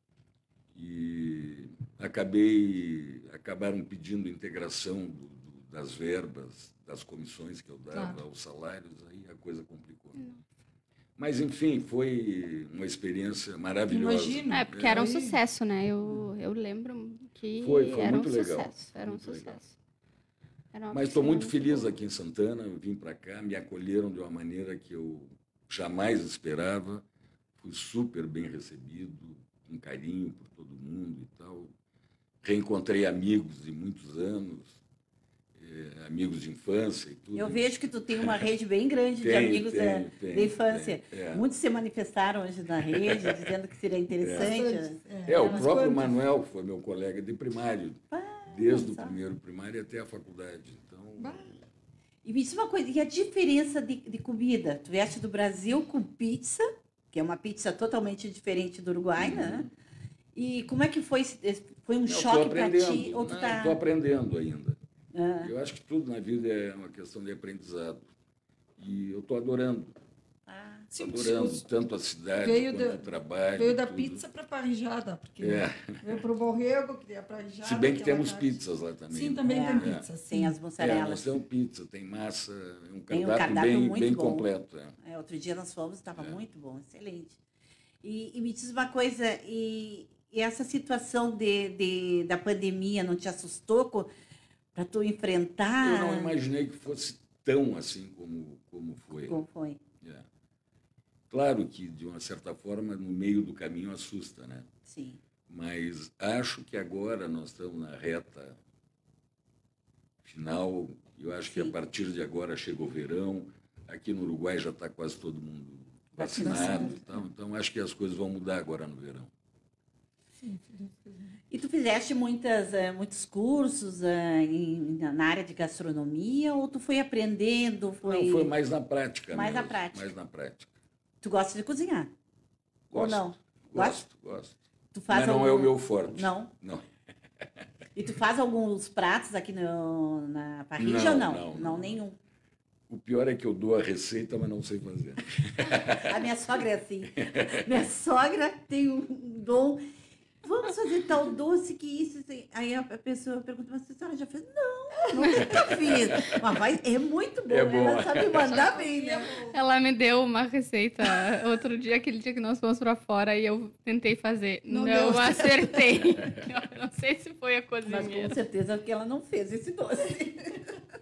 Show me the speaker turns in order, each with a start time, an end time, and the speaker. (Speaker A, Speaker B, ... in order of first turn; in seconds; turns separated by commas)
Speaker A: 0.7-10.2, Speaker B: 7.9-8.2, Speaker A: 11.2-15.1, Speaker B: 13.9-15.4, Speaker C: 14.5-19.7, Speaker A: 17.6-19.6, Speaker C: 20.7-21.9, Speaker A: 20.9-27.0, Speaker A: 27.6-31.7, Speaker A: 32.4-34.8, Speaker A: 35.5-37.6, Speaker D: 37.3-45.7, Speaker A: 39.2-41.4, Speaker A: 42.9-43.5, Speaker A: 44.2-44.6, Speaker B: 44.4-46.2, Speaker A: 45.3-51.6, Speaker D: 48.1-49.2, Speaker B: 51.2-51.5, Speaker D: 52.2-59.7, Speaker A: 59.2-59.7, Speaker D: 60.4-63.8, Speaker A: 62.1-64.8, Speaker D: 65.1-65.5, Speaker A: 65.4-68.1, Speaker A: 68.8-70.0, Speaker D: 70.5-70.9, Speaker B: 70.9-71.7, Speaker A: 71.0-74.2, Speaker B: 72.4-78.6, Speaker A: 75.4-76.2, Speaker A: 77.6-80.1, Speaker B: 79.1-80.6, Speaker D: 79.5-81.3, Speaker A: 80.8-85.0, Speaker D: 83.1-84.5, Speaker D: 85.0-87.4, Speaker D: 88.0-94.1, Speaker D: 94.8-96.3, Speaker A: 95.8-99.4, Speaker D: 99.3-99.8, Speaker A: 100.0-100.3, Speaker A: 101.3-104.7, Speaker D: 104.9-105.2, Speaker A: 105.5-108.6, Speaker A: 110.2-119.3, Speaker D: 111.5-111.8, Speaker D: 116.2-117.0, Speaker B: 116.3-117.0, Speaker B: 120.4-121.4, Speaker D: 121.5-128.5, Speaker A: 128.0-130.7, Speaker D: 129.3-130.1, Speaker D: 131.2-132.1, Speaker A: 132.9-136.8, Speaker D: 132.9-134.0, Speaker D: 134.9-136.5, Speaker D: 137.9-142.2, Speaker A: 140.8-142.0, Speaker A: 142.9-146.2, Speaker D: 145.9-149.8, Speaker A: 147.2-147.6, Speaker D: 150.4-159.4, Speaker A: 155.3-156.4, Speaker A: 157.5-158.6, Speaker B: 158.5-159.6, Speaker C: 159.5-168.4, Speaker B: 164.7-166.0, Speaker D: 167.8-170.8